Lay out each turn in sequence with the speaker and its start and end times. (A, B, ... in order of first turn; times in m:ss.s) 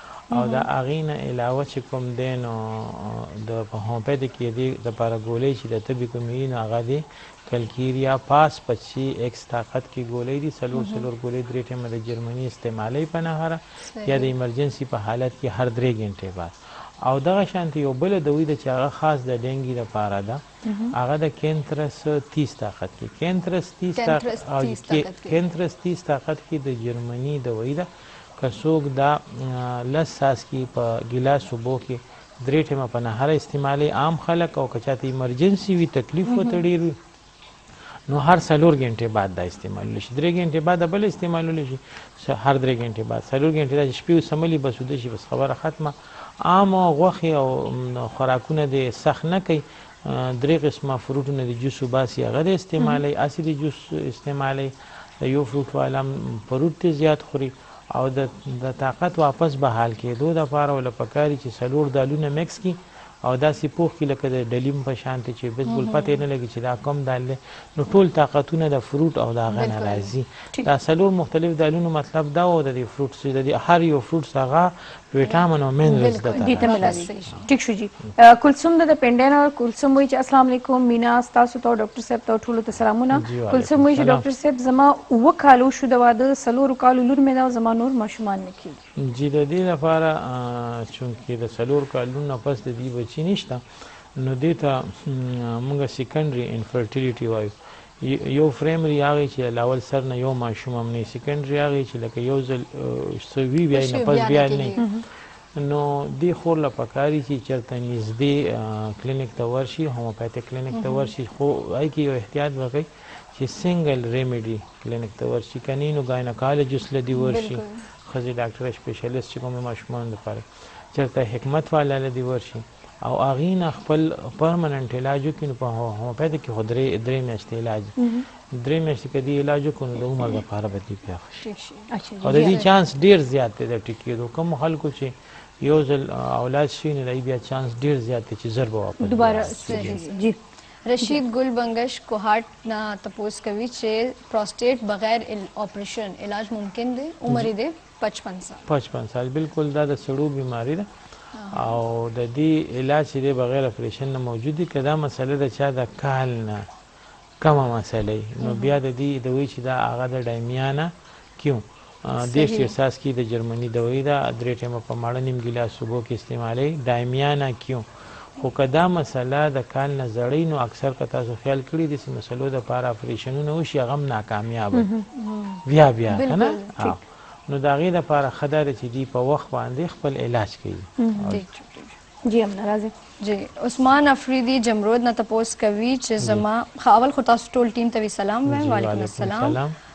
0:00.3-0:20.4 A
0:00.3-0:00.6 B
0:10.7-0:11.1 C
0:13.9-0:14.3 C
0:20.6-0:20.9 B
0:20.9-0:37.0 A
0:24.0-0:25.4 C
0:38.1-1:17.0 A
1:05.6-1:06.2 C
1:09.5-1:10.1 C
1:15.2-1:17.5 C
1:16.3-1:28.8 B
1:23.1-1:24.2 A
1:29.0-1:33.6 A
1:34.1-1:44.8 A
1:43.7-1:44.8 C
1:44.8-1:45.0 B
1:45.6-2:11.5 A
1:50.7-1:51.1 C
1:57.1-1:57.8 C
2:08.0-2:08.2 B
2:11.4-2:12.7 C
2:11.9-2:12.6 B
2:12.2-2:20.0 A
2:19.0-2:20.4 B
2:19.2-2:20.2 C
2:20.8-2:28.6 C
2:28.7-2:30.9 A
2:31.3-2:31.8 C
2:31.5-2:36.7 A
2:37.4-2:47.8 A
2:42.2-2:42.7 C
2:48.4-2:54.9 A
2:54.7-2:55.0 B
2:55.1-2:56.9 C
2:55.6-3:01.4 A
3:01.0-3:01.4 B
3:01.3-3:02.0 C
3:02.2-3:02.9 B
3:03.2-3:09.6 C
3:06.2-3:06.4 A
3:08.4-3:09.7 A